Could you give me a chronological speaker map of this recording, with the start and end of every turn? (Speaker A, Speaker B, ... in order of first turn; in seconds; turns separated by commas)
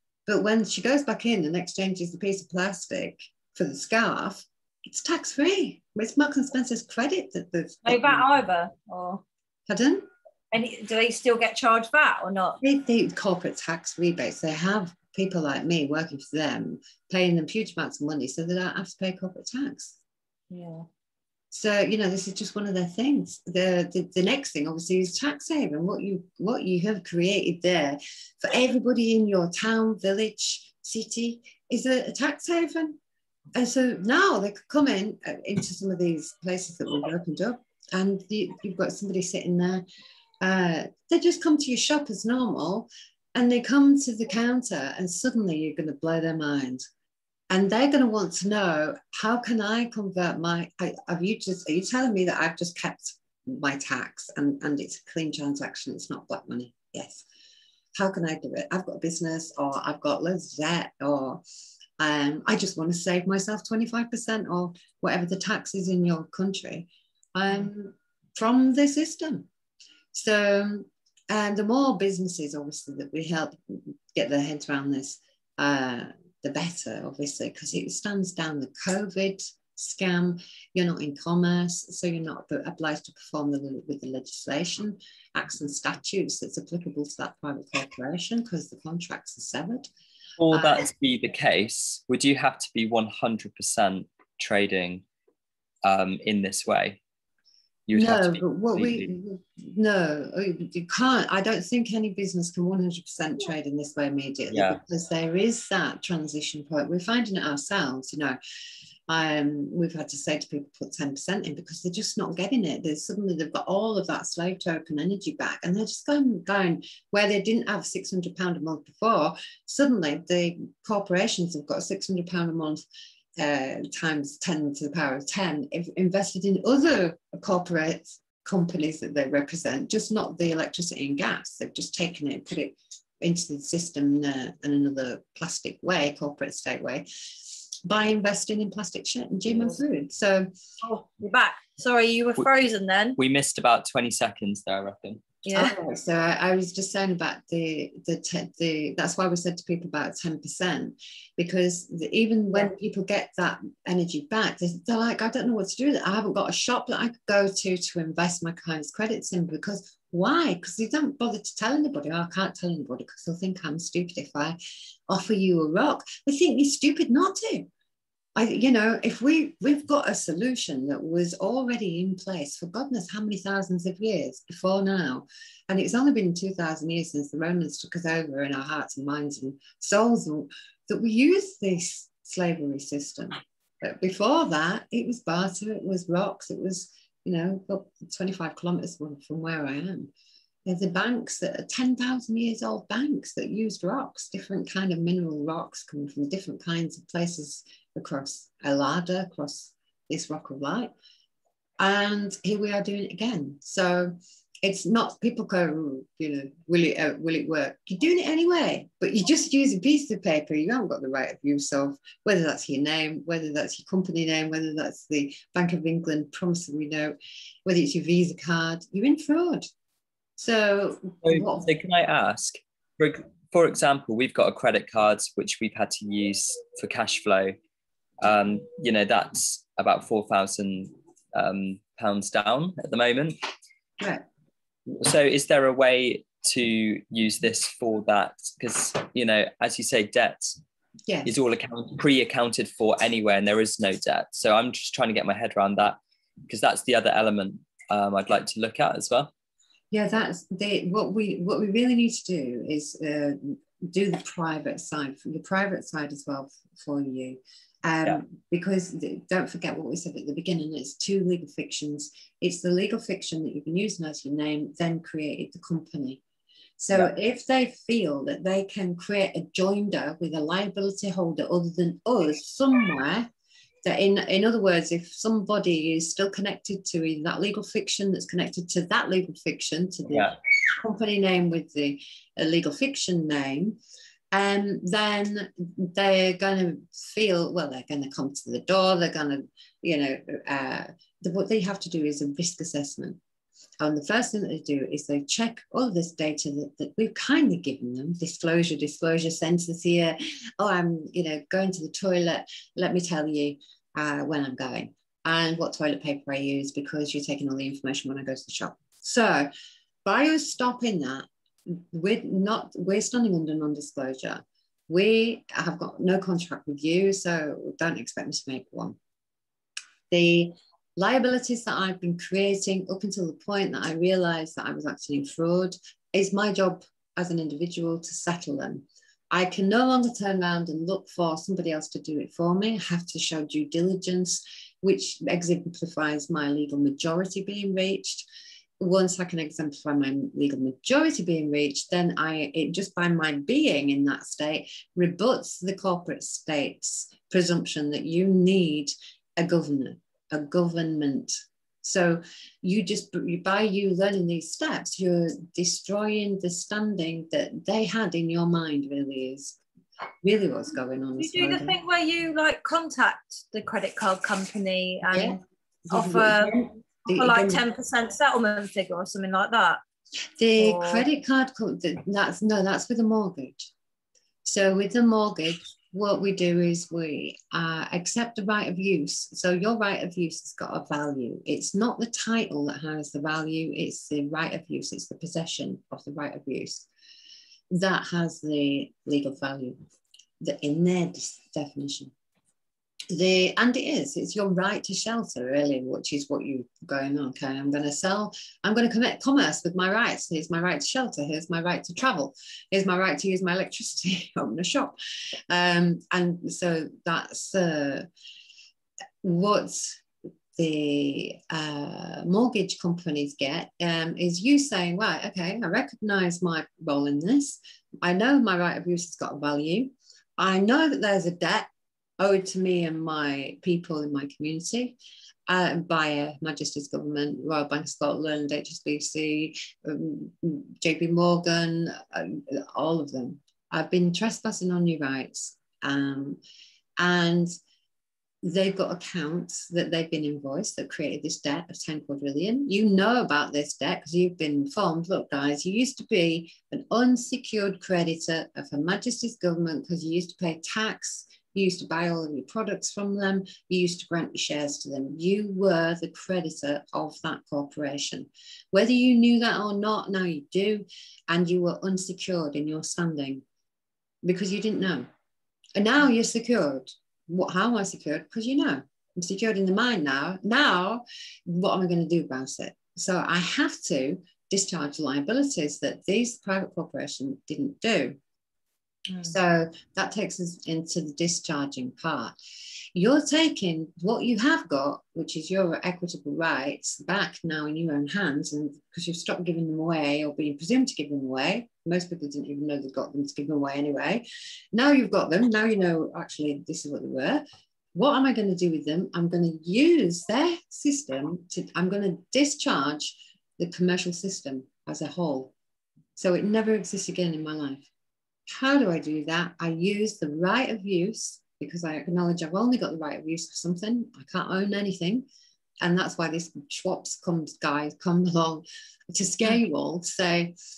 Speaker A: 0.3-8.2, Speaker B: 7.8-9.2, Speaker A: 9.7-10.1, Speaker B: 10.5-12.6, Speaker A: 12.6-20.0, Speaker B: 20.5-20.9, Speaker A: 21.5-33.0, Speaker A: 33.5-39.8, Speaker A: 40.4-46.9, Speaker A: 47.5-57.2, Speaker A: 58.0-61.4, Speaker A: 62.0-69.5, Speaker A: 70.1-89.9, Speaker C: 90.4-95.0, Speaker A: 90.5-90.9, Speaker C: 95.8-97.0, Speaker C: 97.9-99.1, Speaker A: 97.9-108.4, Speaker C: 104.5-104.8, Speaker A: 109.1-122.8, Speaker A: 123.4-140.5, Speaker B: 140.8-143.2, Speaker C: 143.2-145.2, Speaker B: 145.4-145.7, Speaker A: 145.6-164.6, Speaker A: 165.1-167.7, Speaker A: 168.4-190.1, Speaker A: 190.7-200.9, Speaker A: 201.8-217.2, Speaker A: 217.7-219.7, Speaker A: 220.4-221.7, Speaker C: 221.2-227.6, Speaker C: 228.2-233.4, Speaker C: 234.9-240.5, Speaker C: 241.2-249.3, Speaker A: 249.9-266.2, Speaker A: 266.8-273.3, Speaker A: 273.9-283.8, Speaker C: 280.1-280.4, Speaker A: 284.3-293.2, Speaker A: 293.8-309.5, Speaker A: 310.1-319.0, Speaker A: 320.1-338.2, Speaker A: 338.8-359.6, Speaker A: 360.2-361.8, Speaker B: 361.2-369.8, Speaker A: 365.1-367.6, Speaker A: 370.4-373.7, Speaker B: 370.6-371.1, Speaker A: 374.4-386.9, Speaker A: 387.7-389.8, Speaker A: 390.4-392.1, Speaker A: 393.1-405.0, Speaker A: 405.5-408.1, Speaker A: 409.2-410.0, Speaker A: 410.6-425.0, Speaker A: 425.5-436.4, Speaker A: 437.0-437.5, Speaker A: 438.4-463.4, Speaker A: 464.2-465.1, Speaker A: 465.8-478.2, Speaker B: 479.1-479.4, Speaker A: 479.2-482.4, Speaker A: 482.9-497.4, Speaker A: 497.9-505.5, Speaker A: 506.2-507.9, Speaker A: 508.5-515.3, Speaker A: 515.8-520.5